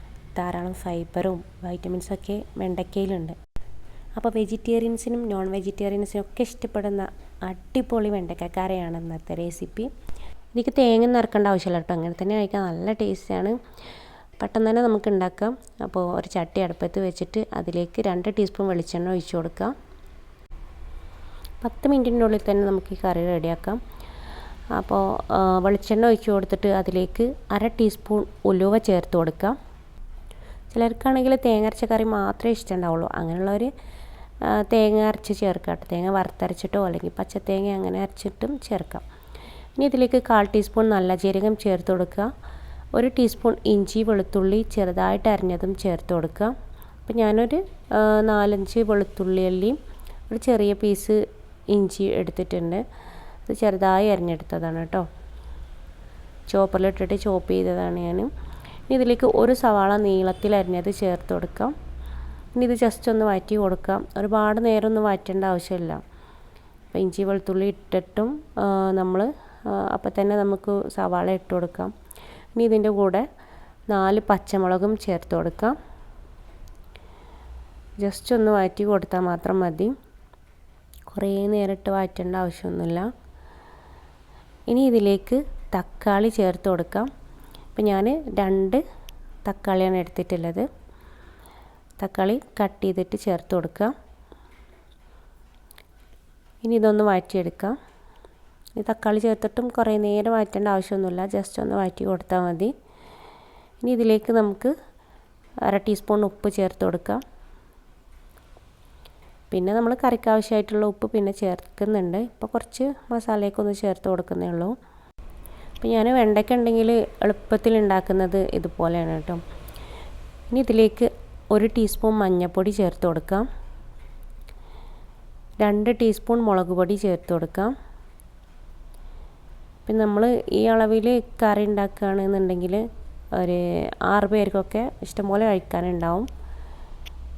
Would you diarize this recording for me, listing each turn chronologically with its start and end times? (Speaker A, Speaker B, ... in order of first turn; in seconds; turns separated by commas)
Speaker A: 0.3-3.4, Speaker A: 4.2-9.9, Speaker A: 10.6-13.6, Speaker A: 14.4-19.7, Speaker A: 21.6-23.8, Speaker A: 24.8-29.6, Speaker A: 30.7-33.7, Speaker A: 34.4-39.0, Speaker A: 39.8-42.3, Speaker A: 43.0-46.5, Speaker A: 47.1-49.8, Speaker A: 50.3-51.2, Speaker A: 51.7-52.8, Speaker A: 53.5-55.1, Speaker A: 56.5-58.3, Speaker A: 58.9-61.7, Speaker A: 62.6-66.0, Speaker A: 66.9-71.9, Speaker A: 72.5-73.3, Speaker A: 73.9-75.8, Speaker A: 78.0-79.9, Speaker A: 81.1-83.1, Speaker A: 84.7-87.1, Speaker A: 87.8-88.8, Speaker A: 89.5-90.7, Speaker A: 92.0-93.9, Speaker A: 96.6-97.8, Speaker A: 98.8-102.7, Speaker A: 103.8-104.7, Speaker A: 105.7-107.2, Speaker A: 109.5-114.8, Speaker A: 115.8-119.4, Speaker A: 120.5-123.5, Speaker A: 125.6-127.7, Speaker A: 129.8-132.8, Speaker A: 133.3-136.3